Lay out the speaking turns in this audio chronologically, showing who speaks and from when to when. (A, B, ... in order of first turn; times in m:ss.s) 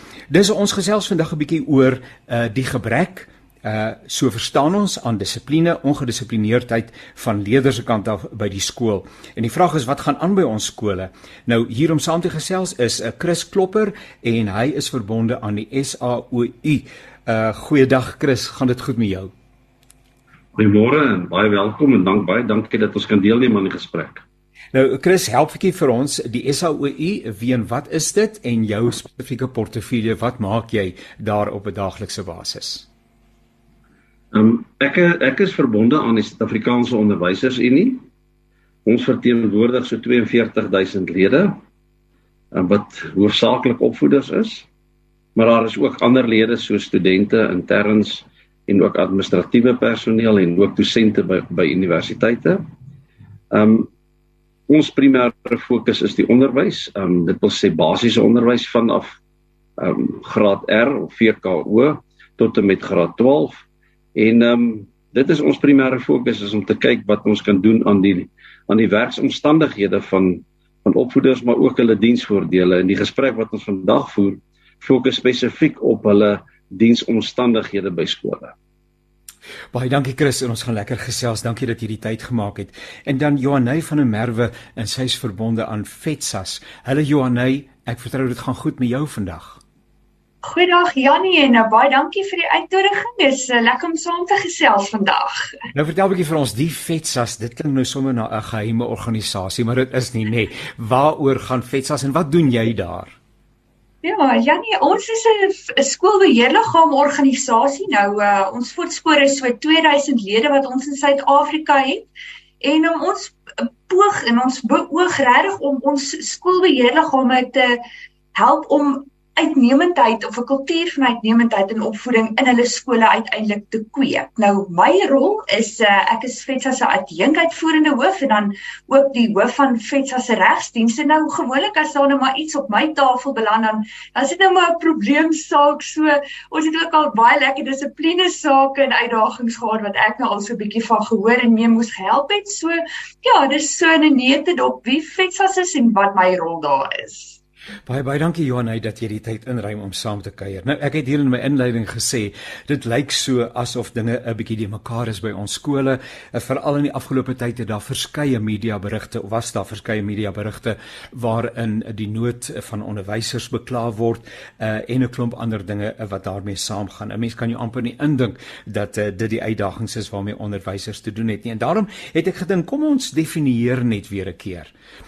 0:00.3-0:19.3 A
0:20.6-0:24.2 B
0:24.7-0:32.9 A
0:34.3-0:38.0 B
0:38.8-0:41.6 B
0:42.5-0:44.7 B
0:45.3-0:52.6 B
0:53.5-0:53.9 B
0:54.7-0:59.2 B
0:59.8-1:03.6 B
1:04.1-1:18.5 B
1:19.7-1:29.6 A
1:30.4-1:35.6 C
1:35.7-1:43.2 A
1:44.0-1:52.0 C
1:52.6-1:57.8 C
1:58.3-2:27.4 C
2:27.9-2:54.7 A